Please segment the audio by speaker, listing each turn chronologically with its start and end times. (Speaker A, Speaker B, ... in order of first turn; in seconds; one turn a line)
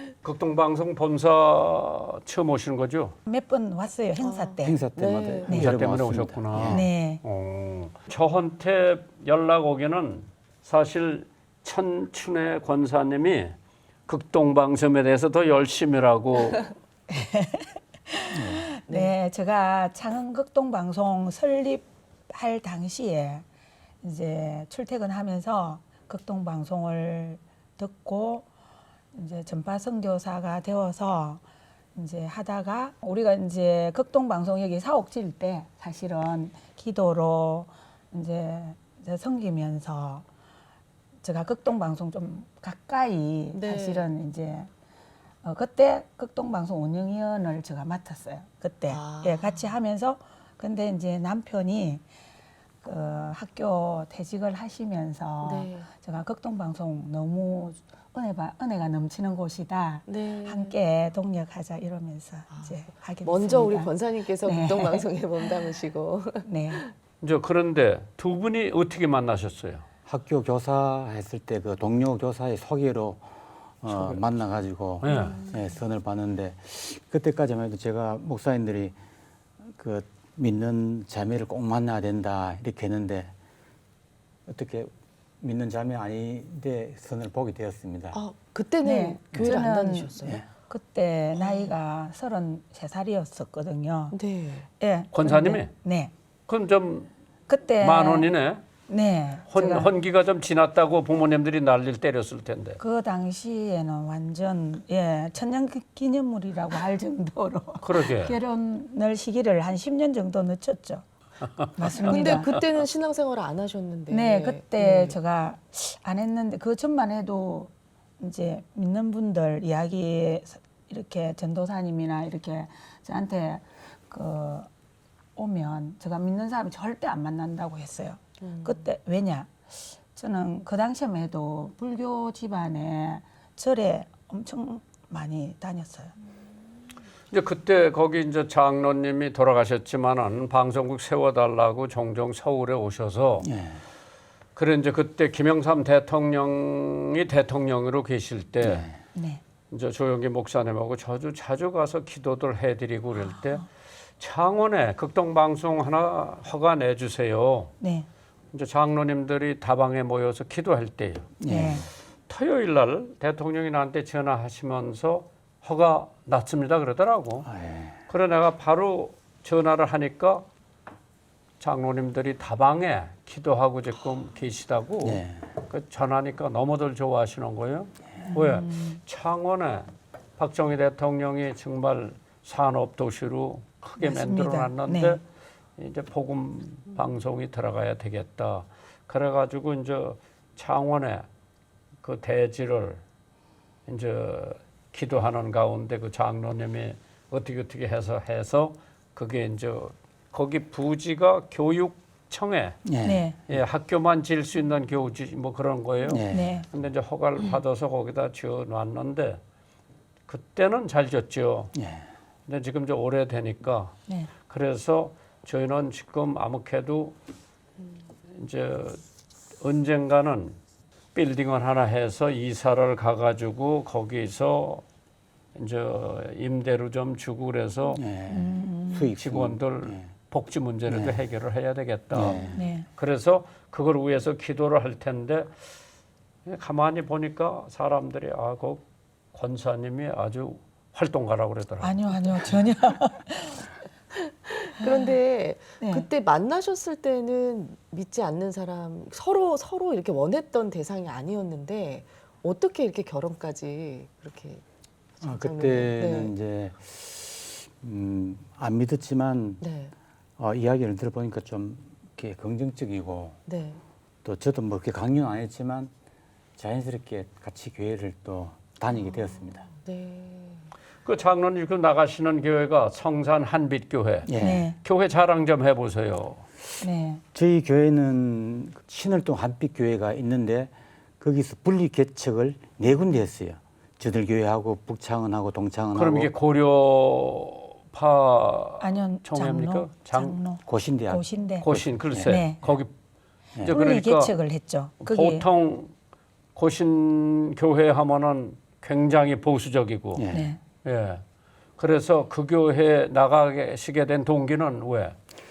Speaker A: 0.2-3.2
Speaker B: 3.3-4.8
Speaker C: 4.2-5.6
Speaker D: 4.6-6.8
Speaker A: 5.5-13.6
Speaker B: 6.7-7.2
Speaker A: 14.1-16.7
Speaker B: 17.1-23.4
Speaker D: 18.3-18.7
Speaker C: 18.9-19.1
Speaker B: 24.0-28.5
Speaker B: 29.1-31.4
Speaker B: 31.9-40.2
Speaker B: 41.2-44.7
Speaker C: 43.5-44.1
Speaker B: 45.4-52.0
Speaker C: 48.9-49.6
Speaker B: 52.8-65.5
Speaker C: 55.4-55.9
Speaker C: 60.1-60.8
Speaker C: 62.5-66.9
Speaker B: 66.4-66.8
Speaker A: 67.2-69.9
Speaker D: 70.1-79.0
Speaker A: 73.9-74.2
Speaker A: 75.0-75.4
Speaker C: 75.0-75.8
Speaker D: 79.6-83.3
Speaker D: 84.5-88.2
Speaker C: 88.1-90.4
Speaker B: 88.8-94.2
Speaker D: 90.2-90.5
Speaker C: 91.4-91.7
Speaker C: 94.1-94.7
Speaker B: 94.8-96.1
Speaker A: 95.1-95.7
Speaker A: 96.5-97.1
Speaker B: 97.5-98.3
Speaker A: 97.8-98.6
Speaker B: 98.9-99.9
Speaker A: 99.5-102.8
Speaker B: 102.8-111.0
Speaker A: 107.8-108.4
Speaker B: 111.6-112.5
Speaker A: 111.9-112.6
Speaker C: 112.0-115.2
Speaker B: 114.1-124.7
Speaker B: 125.4-136.1
Speaker C: 128.4-128.9
Speaker A: 137.3-143.5
Speaker D: 143.4-143.8
Speaker A: 144.6-148.9
Speaker D: 148.6-148.9
Speaker B: 149.2-149.4
Speaker A: 149.7-153.7
Speaker A: 154.2-157.7
Speaker B: 157.8-158.1
Speaker A: 158.5-161.3
Speaker D: 161.4-161.9
Speaker B: 161.5-161.9
Speaker A: 162.3-167.5
Speaker D: 167.4-168.0
Speaker A: 168.1-170.5
Speaker A: 171.6-179.9
Speaker D: 175.0-175.5
Speaker B: 178.2-179.0
Speaker A: 180.4-185.2
Speaker B: 184.0-185.2
Speaker A: 185.8-191.3
Speaker A: 192.0-193.0
Speaker A: 193.9-202.8
Speaker D: 202.8-203.3
Speaker B: 203.0-203.4
Speaker A: 203.5-209.4
Speaker D: 206.1-206.6
Speaker B: 206.3-206.7
Speaker A: 210.3-211.8
Speaker D: 211.8-212.1
Speaker A: 212.5-217.2
Speaker A: 218.3-219.0
Speaker A: 219.6-220.6
Speaker A: 221.2-224.8
Speaker A: 225.6-228.0
Speaker D: 227.9-230.1
Speaker B: 228.3-229.1
Speaker A: 229.2-235.7
Speaker D: 230.9-231.2
Speaker D: 232.1-232.6
Speaker B: 232.6-232.9
Speaker A: 236.4-242.4
Speaker B: 241.8-243.7
Speaker C: 244.1-254.6
Speaker B: 245.8-246.1
Speaker C: 255.2-256.3
Speaker D: 255.2-259.6
Speaker C: 259.6-259.9
Speaker D: 260.4-263.4
Speaker C: 263.5-263.8
Speaker D: 264.2-265.9
Speaker D: 266.6-269.7
Speaker C: 268.9-270.7
Speaker A: 271.1-276.4
Speaker D: 274.3-274.7
Speaker B: 274.4-274.8
Speaker B: 276.8-277.2
Speaker D: 277.3-286.3
Speaker A: 285.9-290.4
Speaker B: 288.8-291.7
Speaker D: 290.7-292.5
Speaker A: 291.6-292.9
Speaker B: 292.2-292.6
Speaker A: 293.6-294.3
Speaker B: 293.7-295.5
Speaker A: 295.0-295.9
Speaker A: 296.6-300.2
Speaker D: 300.2-300.5
Speaker B: 300.3-300.6
Speaker A: 300.8-301.2
Speaker A: 301.8-305.2